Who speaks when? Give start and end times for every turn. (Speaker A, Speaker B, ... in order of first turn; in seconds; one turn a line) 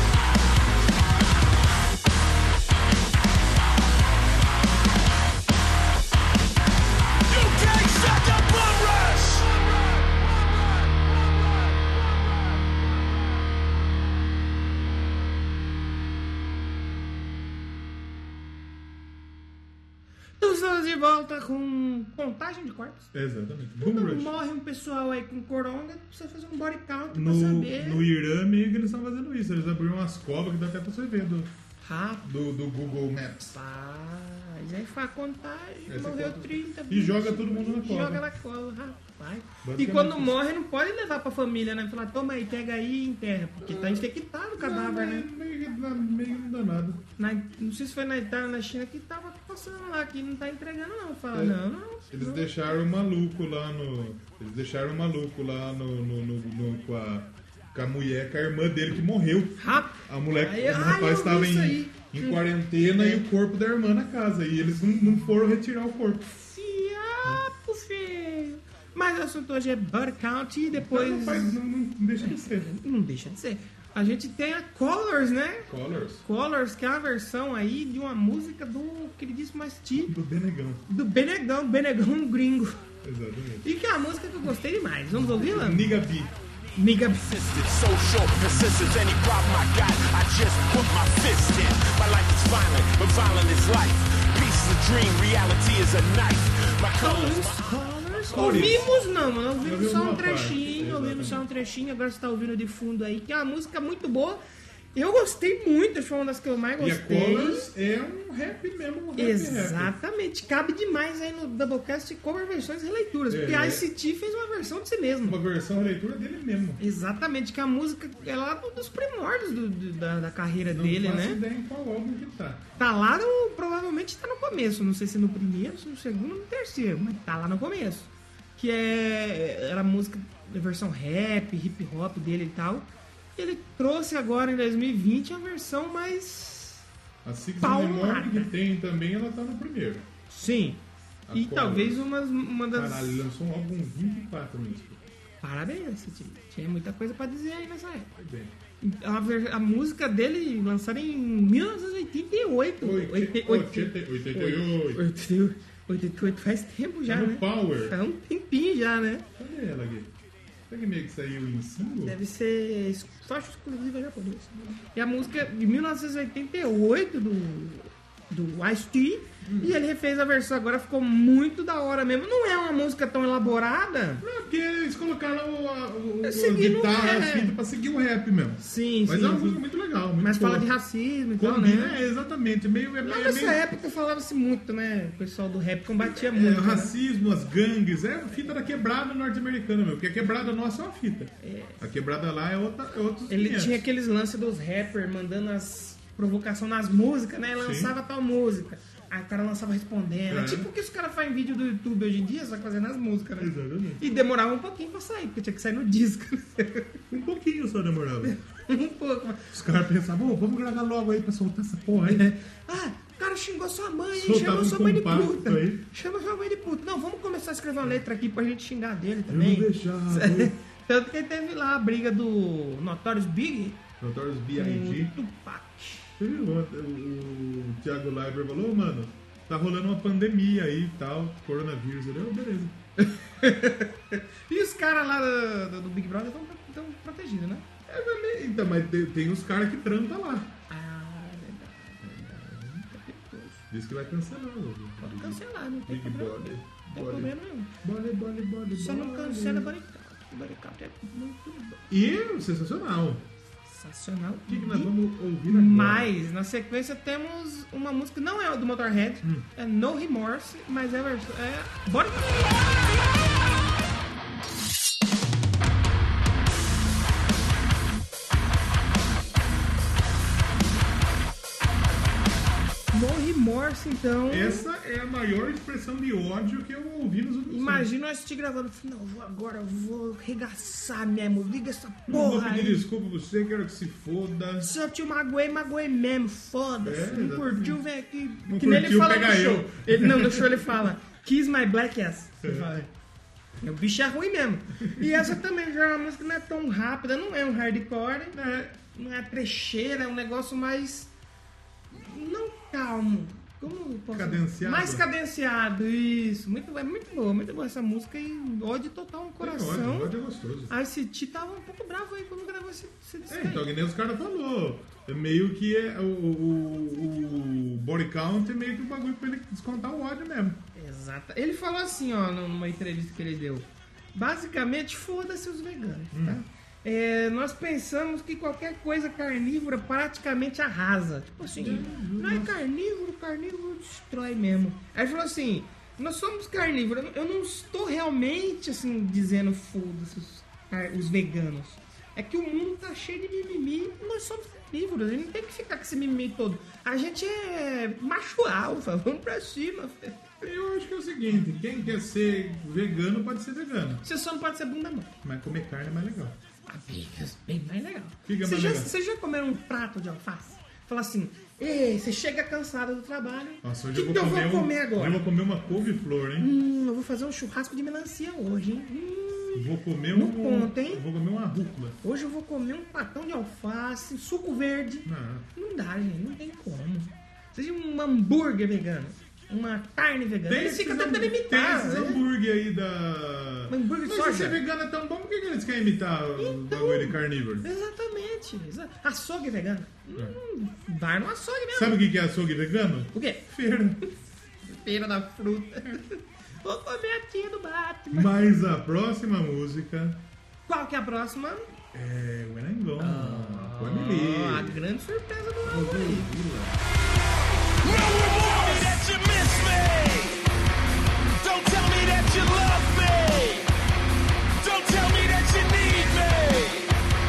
Speaker A: 7.3-10.1
Speaker B: 20.4-23.1
Speaker C: 23.1-24.3
Speaker B: 23.8-28.1
Speaker C: 27.1-31.5
Speaker B: 31.8-32.2
Speaker C: 32.2-33.5
Speaker B: 33.5-45.3
Speaker C: 35.9-38.2
Speaker C: 39.6-40.4
Speaker C: 43.6-47.0
Speaker B: 47.2-52.5
Speaker C: 51.3-51.6
Speaker C: 52.1-66.3
Speaker B: 59.6-63.2
Speaker B: 66.3-71.6
Speaker C: 70.7-72.7
Speaker B: 72.2-80.1
Speaker C: 75.7-76.2
Speaker C: 80.0-80.8
Speaker B: 80.9-82.8
Speaker C: 83.0-83.7
Speaker B: 83.6-85.9
Speaker C: 85.1-86.3
Speaker B: 86.8-87.3
Speaker A: 87.2-98.7
Speaker B: 97.0-104.4
Speaker C: 98.3-98.9
Speaker C: 99.6-101.4
Speaker B: 104.9-107.7
Speaker C: 106.8-109.9
Speaker B: 109.2-115.4
Speaker C: 113.3-113.8
Speaker C: 115.2-116.8
Speaker B: 116.8-121.4
Speaker C: 120.7-122.7
Speaker B: 122.8-136.8
Speaker C: 137.2-140.1
Speaker B: 137.6-138.5
Speaker B: 140.3-140.8
Speaker C: 141.3-142.1
Speaker B: 141.3-143.2
Speaker C: 142.7-145.0
Speaker B: 145.4-148.1
Speaker C: 148.1-148.5
Speaker B: 148.8-159.2
Speaker C: 152.8-155.0
Speaker C: 157.1-157.9
Speaker C: 159.4-160.1
Speaker C: 160.7-162.2
Speaker B: 162.0-174.2
Speaker C: 169.4-169.8
Speaker C: 174.2-180.7
Speaker B: 176.2-177.6
Speaker B: 178.6-179.6
Speaker B: 180.2-182.0
Speaker C: 181.4-183.6
Speaker B: 183.0-186.9
Speaker C: 186.0-193.8
Speaker B: 191.4-191.8
Speaker B: 193.3-207.0
Speaker C: 197.6-197.9
Speaker C: 200.3-200.7
Speaker C: 203.4-204.0
Speaker C: 207.1-208.3
Speaker B: 208.2-209.5
Speaker C: 209.5-212.3
Speaker B: 212.1-223.8
Speaker C: 214.1-215.8
Speaker C: 219.3-220.6
Speaker C: 224.0-225.2
Speaker B: 224.5-226.1
Speaker C: 226.2-232.8
Speaker B: 233.0-237.7
Speaker C: 237.9-240.5
Speaker B: 240.7-243.6
Speaker C: 242.3-242.8
Speaker C: 243.7-249.7
Speaker B: 245.0-247.7
Speaker B: 248.7-251.9
Speaker C: 251.9-253.3
Speaker B: 253.7-262.5
Speaker C: 254.5-256.1
Speaker B: 272.9-274.7
Speaker C: 274.3-277.9
Speaker B: 277.5-282.9
Speaker C: 282.1-284.7
Speaker B: 284.6-292.9
Speaker C: 286.8-287.8
Speaker C: 288.4-290.8
Speaker C: 292.4-292.7
Speaker B: 293.6-301.1
Speaker C: 294.8-295.3
Speaker C: 298.3-298.8
Speaker B: 301.9-310.1
Speaker C: 304.1-305.0
Speaker C: 309.4-310.7
Speaker B: 310.7-313.7
Speaker C: 313.3-320.6
Speaker B: 320.7-350.4
Speaker C: 326.1-326.4
Speaker C: 331.5-332.6
Speaker C: 350.4-354.0
Speaker B: 354.0-355.1
Speaker C: 355.2-356.4
Speaker B: 356.7-365.2
Speaker C: 358.2-358.9
Speaker C: 363.6-366.5
Speaker B: 366.4-371.0
Speaker C: 369.5-372.0
Speaker B: 372.0-382.2
Speaker C: 375.0-375.5
Speaker C: 380.5-387.7
Speaker B: 383.7-384.6
Speaker B: 386.4-392.0
Speaker C: 391.7-394.0
Speaker B: 393.1-393.4
Speaker B: 394.6-398.3
Speaker C: 398.1-400.2
Speaker B: 400.7-401.7
Speaker C: 401.9-404.8
Speaker B: 403.0-406.3
Speaker C: 405.6-406.8
Speaker A: 407.8-410.4
Speaker A: 411.4-413.7
Speaker A: 414.6-416.9